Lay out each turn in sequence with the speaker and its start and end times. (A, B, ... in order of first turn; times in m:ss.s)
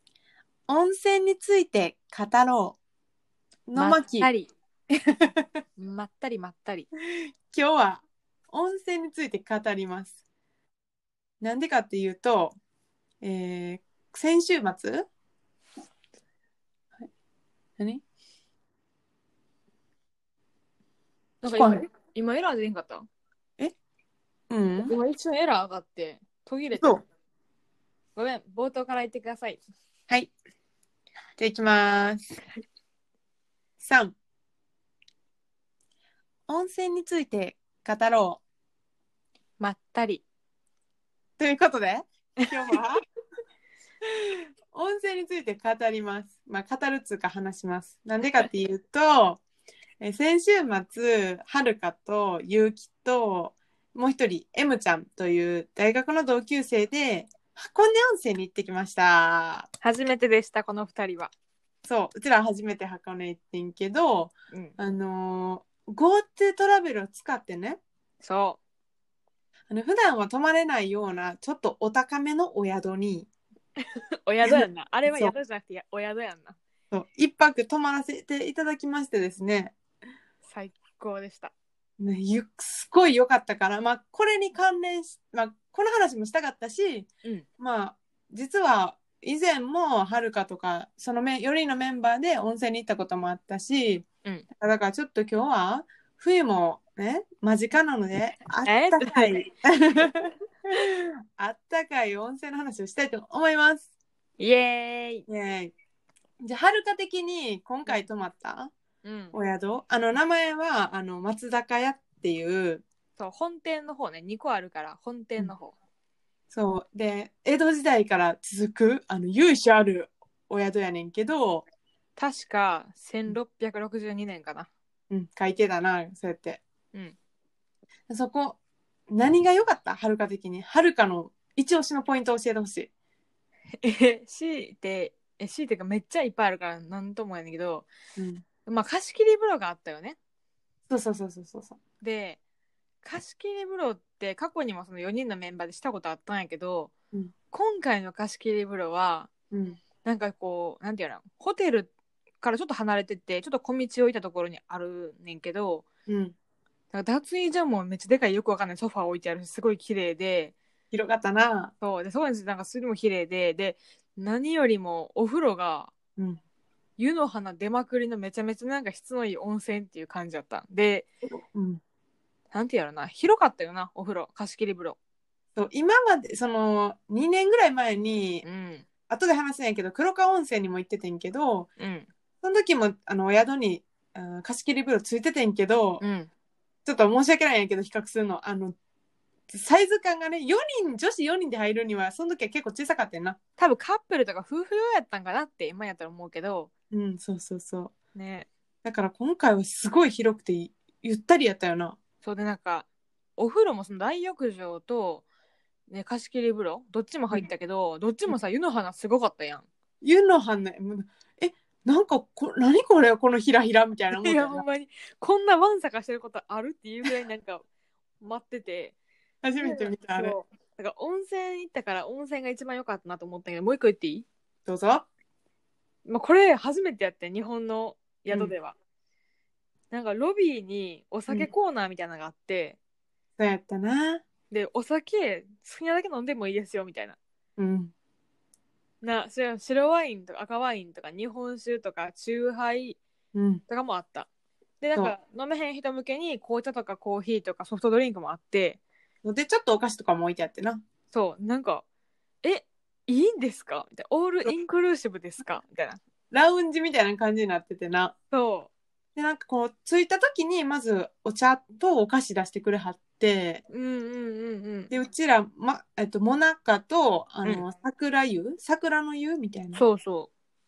0:00.7-0:02.8 A
0:03.7-0:04.3 A
0:03.8-0:04.5 B
0:05.8-0:06.9 B
0:07.4-0:10.1 A
0:11.4-0:12.6 A
0:13.2-0:15.1 A
0:21.4-0:23.0 B
0:21.6-0:21.8 A
0:24.5-0:24.9 A
0:24.8-0:27.0 B
0:28.2-0:29.6 B
0:31.4-0:32.4 A
0:33.8-0:34.2 A
0:36.5-0:38.4 A
0:39.6-0:40.2 B
0:41.4-0:43.0 A
0:44.7-0:49.4 A
0:50.0-0:59.7 A
0:59.8-1:01.3 B
1:01.8-1:07.8 A
1:08.2-1:08.6 B
1:09.7-1:13.3 A
1:13.8-1:16.6 B
1:14.4-1:15.3 A
1:16.9-1:19.7 A
1:20.4-1:21.5 B
1:22.0-1:27.1 A
1:27.6-1:43.8 A
1:38.6-1:39.5 B
1:44.4-1:45.2 B
1:45.3-1:45.7 A
1:46.4-1:48.7 A
1:49.0-1:49.3 B
1:49.3-1:52.8 A
1:53.2-1:55.8 B
1:56.5-2:01.6 A
2:02.2-2:04.7 B
2:05.1-2:06.6 A
2:08.1-2:08.6 A
2:09.1-2:12.9 A
2:13.8-2:17.9 B
2:18.2-2:18.4 A
2:18.6-2:20.2 B
2:20.9-2:21.8 A
2:22.0-2:22.4 B
2:23.0-2:26.9 B
2:27.5-2:29.3 B
2:29.5-2:29.8 A
2:30.0-2:35.8 B
2:36.1-2:36.3 A
2:36.9-2:40.5 B
2:40.9-2:41.7 A
2:41.8-2:45.9 B
2:47.0-2:51.1 B
2:51.3-2:51.8 A
2:52.5-2:55.0 B
2:55.6-2:58.4 A
2:58.4-2:58.9 B
2:59.1-3:01.7 A
3:01.8-3:02.1 B
3:02.4-3:06.0 A
3:06.0-3:06.3 B
3:06.8-3:08.7 A
3:09.5-3:13.4 A
3:13.6-3:16.7 B
3:16.9-3:17.9 A
3:18.1-3:18.5 B
3:18.8-3:22.0 A
3:22.2-3:25.2 B
3:25.9-3:29.6 B
3:30.0-3:34.6 A
3:34.1-3:37.6 B
3:38.2-3:39.0 B
3:39.4-3:40.3 A
3:39.6-3:44.3 B
3:44.7-3:45.0 A
3:46.0-3:48.8 B
3:48.3-3:48.5 A
3:49.9-3:52.8 B
3:53.4-3:54.2 A
3:54.5-3:57.2 B
3:57.6-3:57.9 A
3:59.0-4:03.0 B
4:03.3-4:03.6 A
4:03.7-4:04.3 B
4:04.8-4:08.8 B
4:09.2-4:10.8 A
4:11.1-4:11.8 B
4:12.4-4:16.0 B
4:16.3-4:18.1 A
4:18.3-4:18.7 B
4:19.2-4:23.6 A
4:23.7-4:24.9 B
4:24.9-4:29.8 A
4:29.7-4:30.3 B